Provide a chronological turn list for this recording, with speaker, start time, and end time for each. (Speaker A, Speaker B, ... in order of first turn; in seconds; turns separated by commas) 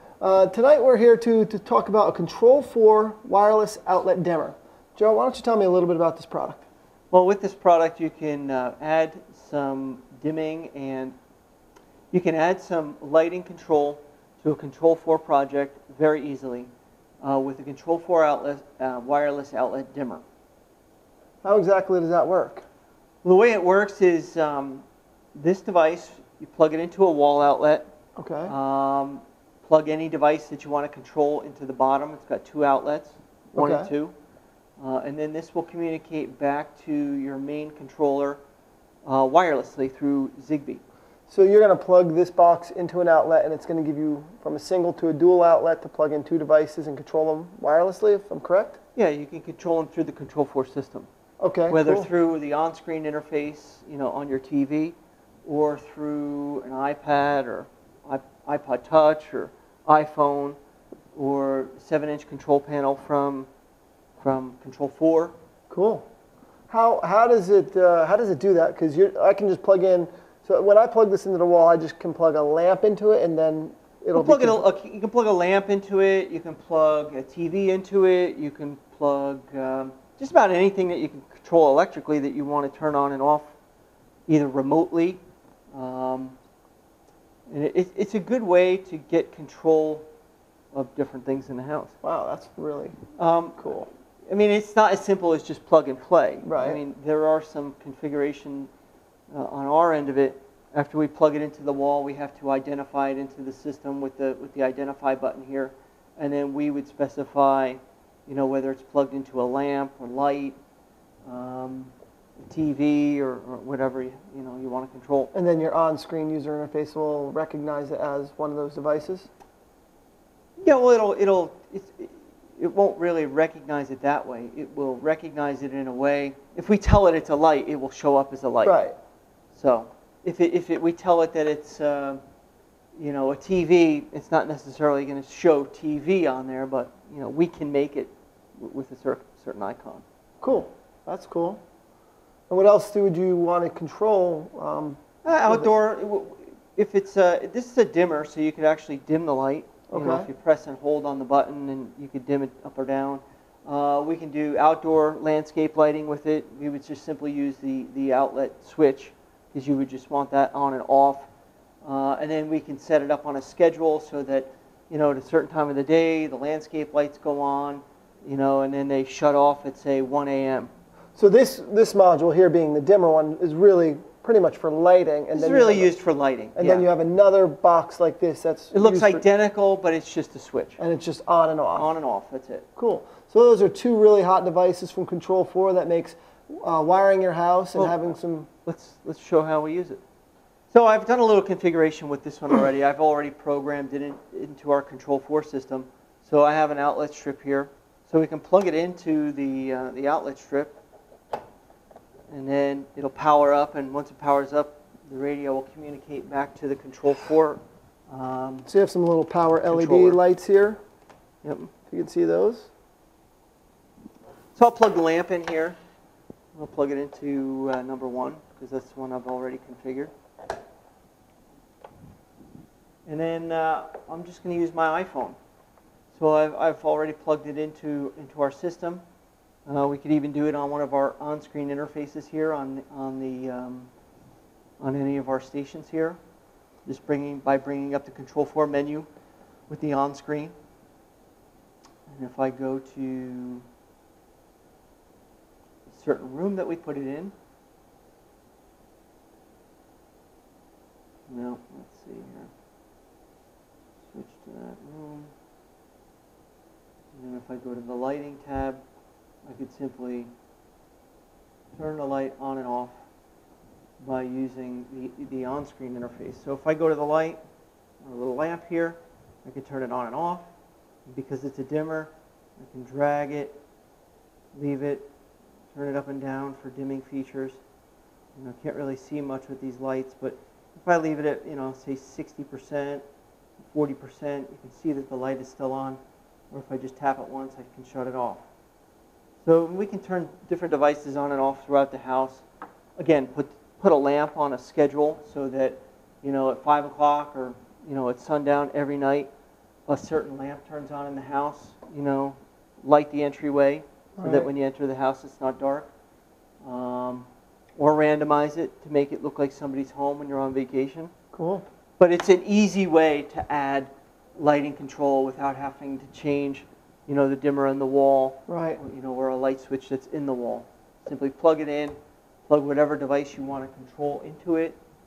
Speaker A: 0.2-6.7, Speaker B: 7.1-11.2, Speaker B: 12.1-16.7, Speaker B: 17.2-20.2, Speaker A: 21.4-22.6, Speaker B: 23.2-27.9, Speaker A: 28.2-28.5, Speaker B: 28.5-34.1, Speaker A: 33.6-33.9, Speaker B: 34.8-38.4, Speaker B: 39.0-40.8, Speaker A: 41.3-48.8, Speaker B: 49.0-51.1, Speaker A: 51.4-52.1, Speaker B: 51.7-55.0, Speaker B: 55.5-60.6, Speaker B: 61.1-63.5, Speaker B: 64.2-65.3, Speaker A: 65.7-66.0, Speaker A: 66.7-74.7, Speaker B: 74.1-83.5, Speaker B: 84.3-85.2, Speaker B: 85.7-86.4, Speaker B: 87.5-90.1, Speaker B: 90.7-91.9, Speaker A: 92.0-93.0, Speaker B: 93.2-98.7, Speaker A: 93.6-93.9, Speaker A: 96.4-96.8, Speaker B: 99.3-110.6, Speaker B: 111.3-115.3, Speaker A: 115.3-119.3, Speaker B: 120.6-128.8, Speaker A: 128.6-129.0, Speaker B: 129.5-132.2, Speaker B: 133.0-140.0, Speaker A: 140.4-141.6, Speaker A: 142.5-145.7, Speaker B: 145.2-161.3, Speaker A: 149.9-150.3, Speaker B: 161.8-170.7, Speaker A: 171.2-175.9, Speaker B: 175.3-176.9, Speaker A: 176.6-179.2, Speaker B: 178.7-180.8, Speaker A: 180.8-181.9, Speaker B: 181.7-182.7, Speaker A: 182.8-188.5, Speaker B: 188.7-190.0, Speaker B: 190.7-200.8, Speaker B: 202.3-208.7, Speaker A: 208.7-210.8, Speaker B: 209.7-210.2, Speaker B: 211.4-211.7, Speaker A: 211.9-212.7, Speaker B: 214.6-215.8, Speaker B: 216.6-220.1, Speaker B: 223.1-225.4, Speaker B: 226.1-229.0, Speaker B: 229.7-233.9, Speaker B: 234.8-236.2, Speaker B: 236.8-239.1, Speaker B: 239.7-240.5, Speaker B: 242.1-243.7, Speaker B: 245.9-247.3, Speaker B: 251.3-252.5, Speaker B: 254.1-255.3, Speaker B: 257.1-258.8, Speaker B: 259.4-260.3, Speaker B: 261.7-262.9, Speaker B: 264.0-267.4, Speaker B: 268.0-270.5, Speaker B: 271.1-273.6, Speaker B: 274.5-275.1, Speaker B: 275.7-277.6, Speaker B: 278.4-283.0, Speaker B: 283.6-286.0, Speaker B: 286.5-288.4, Speaker B: 289.4-292.4, Speaker B: 293.0-299.3, Speaker B: 299.9-305.9, Speaker A: 304.2-304.5, Speaker B: 306.6-311.1, Speaker A: 311.3-311.7, Speaker B: 312.0-322.0, Speaker A: 318.5-318.8, Speaker B: 322.5-324.8